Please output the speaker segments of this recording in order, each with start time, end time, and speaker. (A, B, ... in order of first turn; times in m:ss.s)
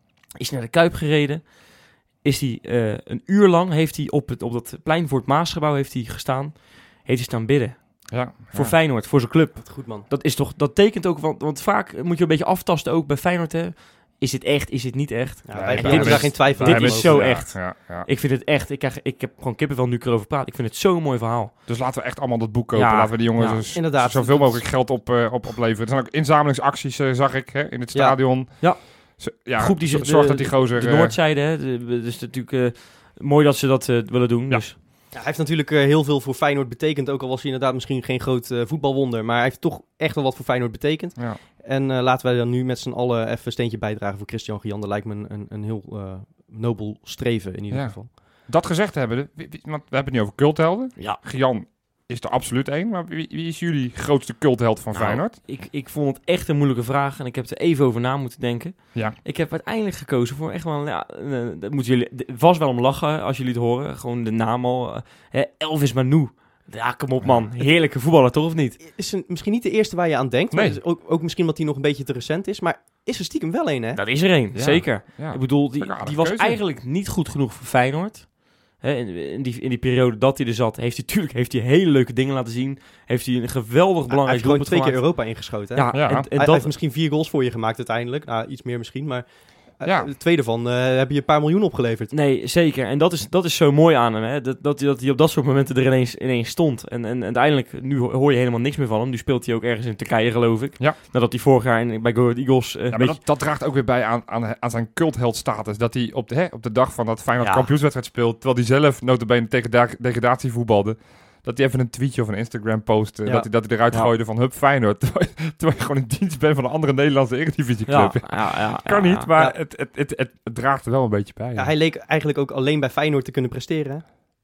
0:00.4-0:01.5 A
0:02.2-0:21.5 A
0:08.1-0:08.8 B
0:09.6-0:10.1 C
0:15.5-0:17.4 C
0:15.5-0:18.1 B
0:21.7-0:31.2 B
0:22.7-0:23.6 A
0:23.7-0:24.6 C
0:27.9-0:28.2 C
0:28.6-0:34.8 A
0:35.1-0:48.1 C
0:47.7-0:55.4 B
0:54.9-1:08.8 A
1:08.8-1:14.0 C
1:10.5-1:10.8 B
1:13.9-1:25.1 A
1:14.5-1:16.6 B
1:24.1-1:29.2 C
1:25.7-1:26.7 A
1:25.9-1:26.3 B
1:29.8-1:32.1 C
1:29.8-1:30.1 B
1:32.1-1:43.2 A
1:42.9-2:01.7 B
1:47.4-1:47.7 A
1:57.9-1:59.3 A
2:01.6-2:04.0 C